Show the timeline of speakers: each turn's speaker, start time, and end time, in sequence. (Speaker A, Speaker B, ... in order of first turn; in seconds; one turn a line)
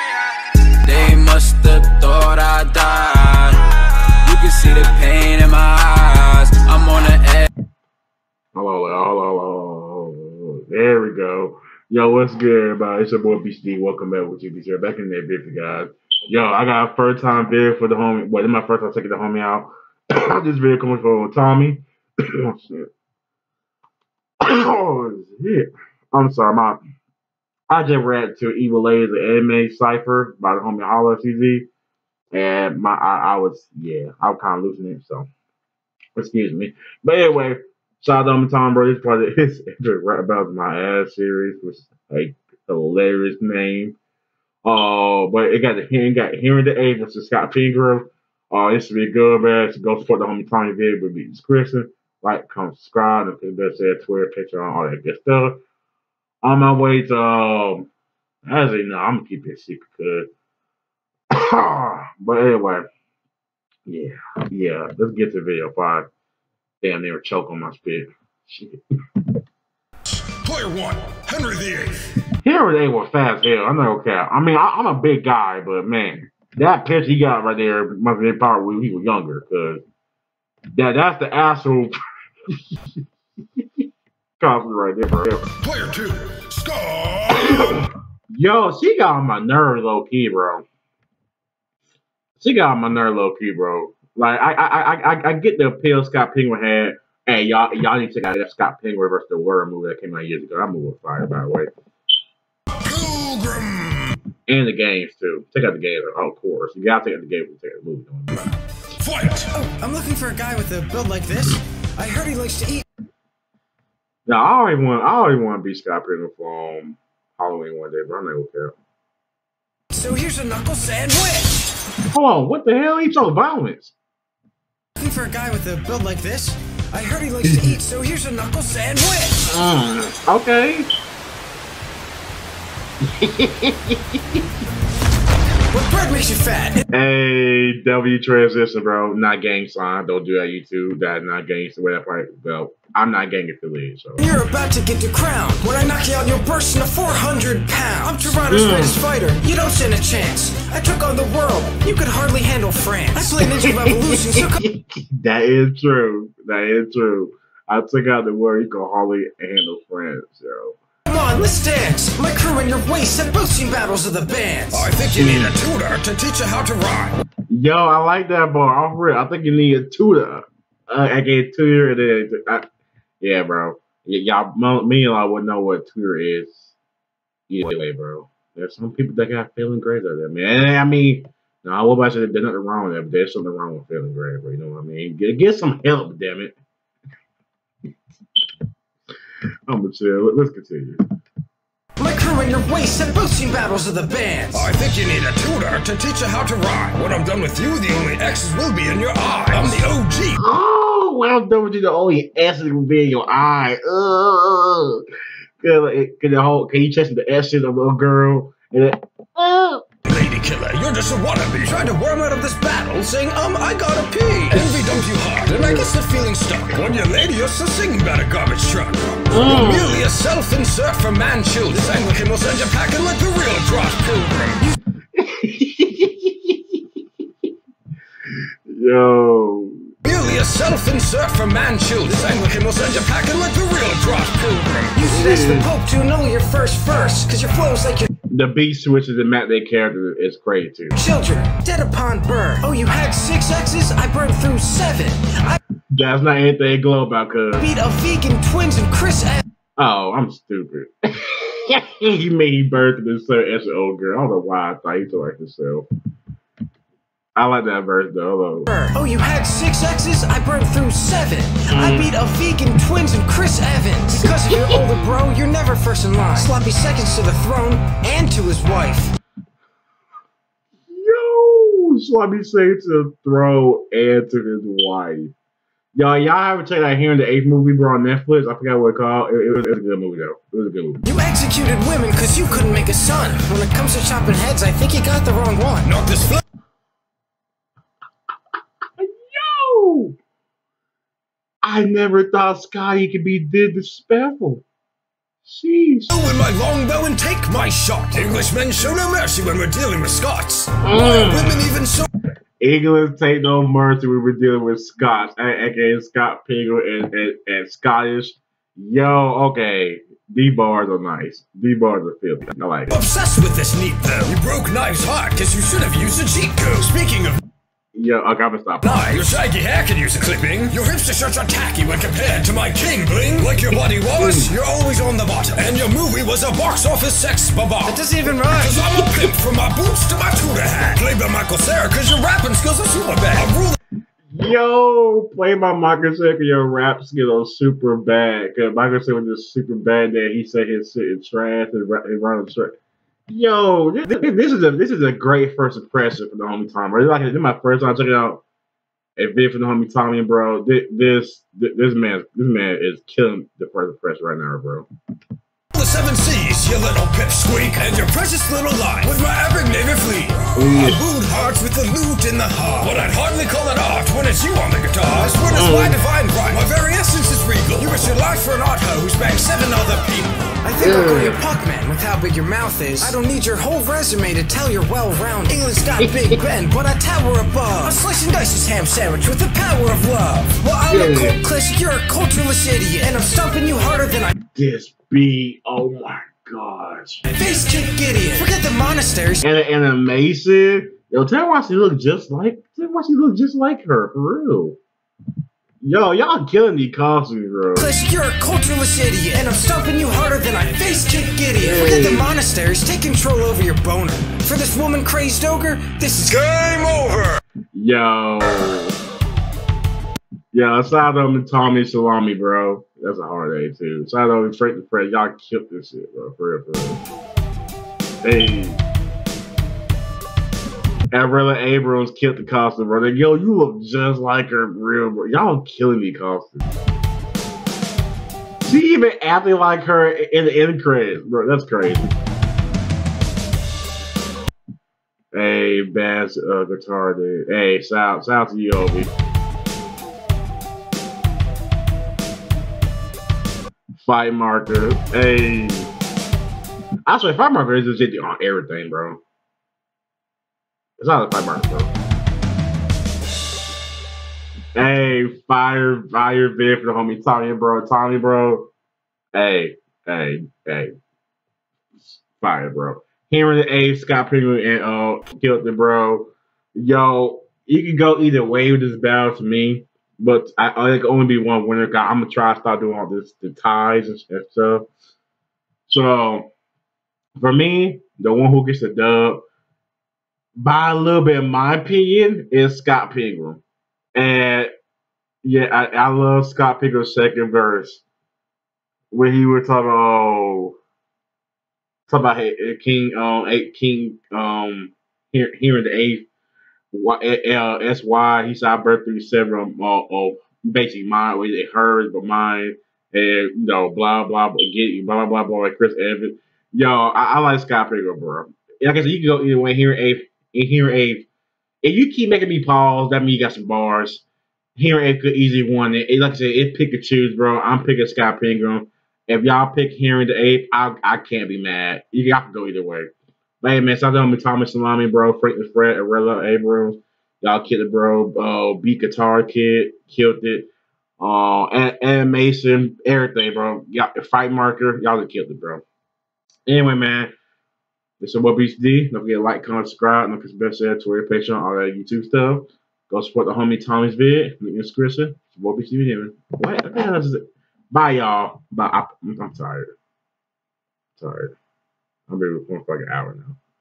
Speaker A: 0.8-3.7
Speaker A: 4.2-7.5
Speaker B: 8.6-22.9
Speaker B: 24.4-26.8
Speaker B: 27.7-31.7
Speaker B: 32.3-35.3
Speaker B: 36.2-44.0
Speaker B: 44.6-55.6
Speaker B: 56.4-57.9
Speaker B: 58.5-60.3
Speaker B: 61.3-62.9
Speaker B: 63.9-66.1
Speaker B: 66.8-68.8
Speaker C: 70.3-71.9
Speaker B: 72.4-79.8
Speaker B: 80.7-81.9
Speaker B: 84.4-85.5
Speaker C: 85.6-87.9
Speaker B: 87.3-90.7
Speaker B: 92.4-101.7
Speaker C: 102.8-104.2
Speaker B: 104.5-108.4
Speaker C: 108.3-109.5
Speaker D: 109.5-112.8
Speaker B: 114.3-118.7
Speaker D: 119.9-121.7
Speaker B: 122.1-124.0
Speaker D: 125.0-129.4
Speaker B: 127.4-127.8
Speaker B: 129.5-130.9
Speaker B: 133.1-134.4
Speaker D: 135.7-136.8
Speaker B: 136.9-144.2
Speaker D: 144.2-154.6
Speaker B: 148.4-149.0
Speaker B: 153.4-160.8
Speaker D: 161.1-164.9
Speaker C: 164.7-167.2
Speaker B: 165.2-165.6
Speaker B: 167.5-172.7
Speaker B: 173.2-176.7
Speaker B: 177.5-186.6
Speaker B: 189.7-191.0
Speaker D: 192.0-194.7
Speaker C: 194.5-200.4
Speaker B: 200.4-205.0
Speaker B: 205.6-209.8
Speaker C: 210.1-224.6
Speaker B: 219.3-220.0
Speaker B: 225.2-226.8
Speaker B: 228.7-229.9
Speaker C: 230.0-234.9
Speaker D: 234.9-238.1
Speaker B: 235.0-235.7
Speaker B: 238.3-241.0
Speaker D: 241.0-245.6
Speaker B: 245.9-247.7
Speaker D: 247.6-249.4
Speaker B: 249.8-255.9
Speaker B: 257.4-258.7
Speaker D: 258.7-269.1
Speaker B: 261.7-262.1
Speaker B: 264.2-264.8
Speaker B: 270.9-275.3
Speaker B: 275.9-281.0
Speaker D: 281.0-285.9
Speaker C: 285.8-286.4
Speaker B: 289.0-290.2
Speaker B: 291.6-294.6
Speaker B: 295.4-296.1
Speaker C: 296.1-302.1
Speaker B: 300.8-301.7
Speaker B: 302.6-313.0
Speaker C: 312.9-317.4
Speaker B: 317.9-319.2
Speaker C: 318.8-328.0
Speaker B: 324.2-324.5
Speaker D: 327.9-328.9
Speaker C: 328.6-333.8
Speaker B: 334.3-342.7
Speaker B: 343.3-348.4
Speaker B: 349.2-354.9
Speaker C: 355.7-370.4
Speaker B: 360.6-361.0
Speaker B: 365.5-366.0
Speaker D: 370.6-384.3
Speaker B: 370.8-371.4
Speaker B: 376.0-376.4
Speaker B: 380.9-381.4
Speaker B: 384.4-387.2
Speaker D: 387.3-389.4
Speaker B: 389.4-394.8
Speaker B: 395.8-397.9
Speaker D: 397.8-406.5
Speaker B: 401.6-402.3
Speaker C: 406.3-407.4
Speaker B: 407.7-408.9
Speaker B: 410.5-417.0
Speaker B: 418.2-418.8
Speaker B: 421.1-426.8
Speaker B: 428.6-432.1
Speaker B: 435.3-439.1
Speaker B: 444.0-445.9
Speaker B: 447.1-449.2
Speaker B: 451.0-451.9
Speaker B: 454.8-458.7
Speaker B: 459.3-460.9
Speaker B: 462.0-474.9
Speaker B: 475.9-476.5
Speaker B: 477.4-479.4
Speaker B: 480.6-483.6
Speaker B: 484.1-484.7
Speaker B: 485.4-488.0
Speaker B: 489.1-490.8
Speaker B: 492.1-496.3
Speaker B: 496.9-511.3
Speaker B: 511.8-514.2
Speaker B: 514.8-523.1
Speaker B: 523.6-530.7
Speaker B: 531.2-535.8
Speaker B: 536.7-537.3
Speaker B: 538.2-549.9
Speaker B: 551.2-551.5
Speaker B: 552.3-553.6